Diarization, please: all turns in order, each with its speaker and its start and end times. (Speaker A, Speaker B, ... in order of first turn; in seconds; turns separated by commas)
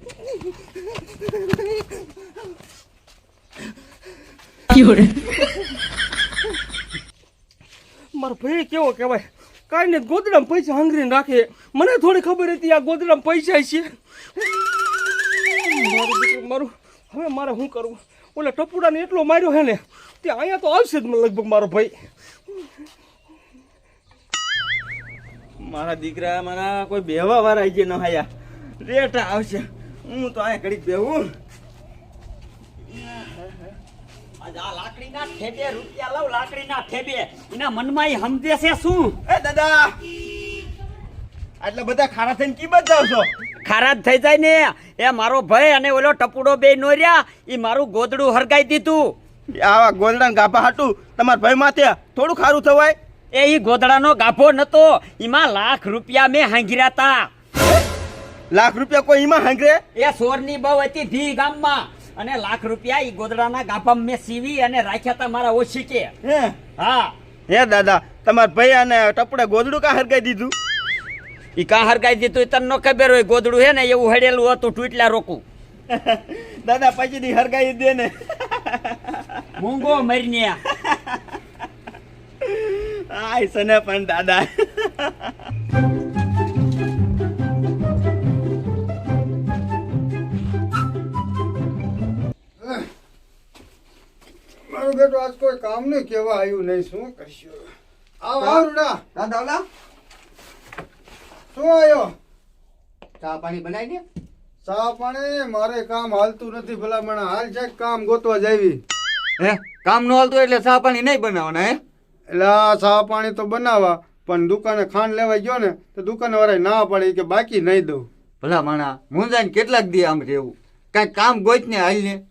Speaker A: 8.1-13.9, Speaker A: 15.6-22.0, Speaker B: 25.6-28.3, Speaker B: 28.8-31.3, Speaker C: 34.4-39.2, Speaker B: 39.3-39.9, Speaker B: 41.6-43.3, Speaker C: 43.6-49.1, Speaker B: 49.6-53.0, Speaker C: 53.3-57.3, Speaker B: 58.5-59.8, Speaker C: 60.0-66.1, Speaker B: 66.2-66.6, Speaker C: 66.8-67.1, Speaker B: 67.5-70.5, Speaker C: 71.6-75.4, Speaker B: 75.9-79.2, Speaker C: 79.6-80.6, Speaker B: 82.4-85.3, Speaker D: 92.6-92.9, Speaker D: 94.7-97.7, Speaker D: 98.2-99.0, Speaker E: 98.4-99.7, Speaker D: 101.5-102.1, Speaker E: 103.2-104.0, Speaker D: 104.6-108.8, Speaker E: 109.4-111.8, Speaker D: 112.3-118.1, Speaker E: 118.4-122.2